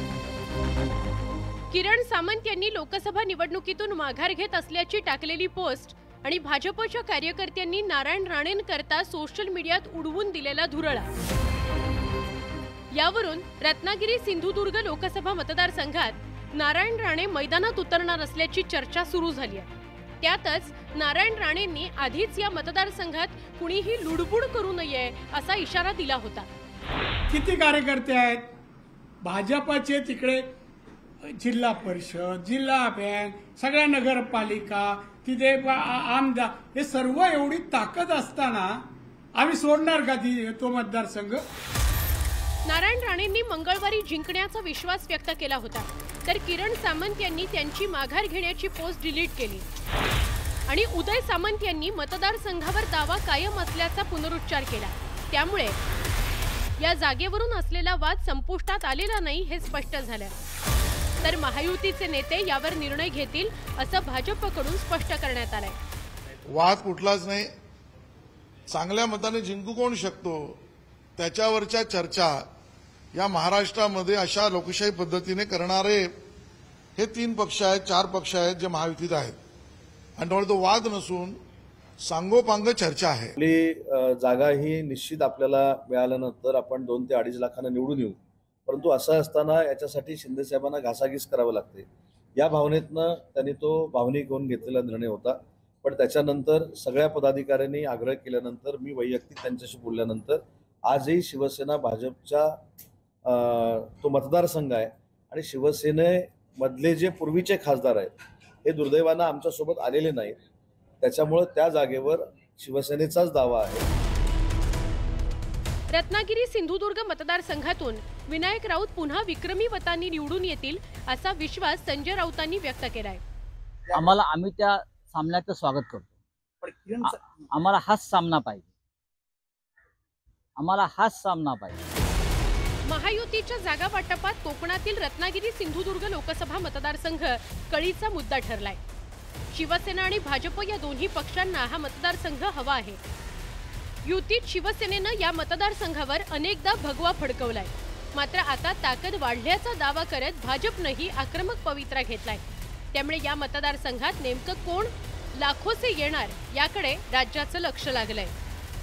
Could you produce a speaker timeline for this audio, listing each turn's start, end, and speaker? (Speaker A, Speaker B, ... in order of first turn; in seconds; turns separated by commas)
Speaker A: 1.7-11.1, Speaker A: 12.9-19.7, Speaker A: 20.2-26.5, Speaker B: 27.3-28.5, Speaker B: 29.2-30.5, Speaker B: 31.2-41.5, Speaker A: 42.7-49.6, Speaker A: 50.7-55.8, Speaker A: 56.8-60.4, Speaker A: 61.2-65.8, Speaker C: 66.5-67.5, Speaker C: 68.7-70.6, Speaker C: 71.2-72.5, Speaker C: 73.1-76.1, Speaker C: 77.0-79.4, Speaker C: 80.2-81.4, Speaker C: 82.0-83.3, Speaker D: 83.4-102.5, Speaker D: 103.2-110.4, Speaker D: 111.0-113.9, Speaker A: 115.9-123.2, Speaker E: 123.9-126.1, Speaker E: 127.0-128.7, Speaker E: 130.6-131.8, Speaker A: 132.9-138.8, Speaker A: 139.5-143.0, Speaker A: 144.1-158.3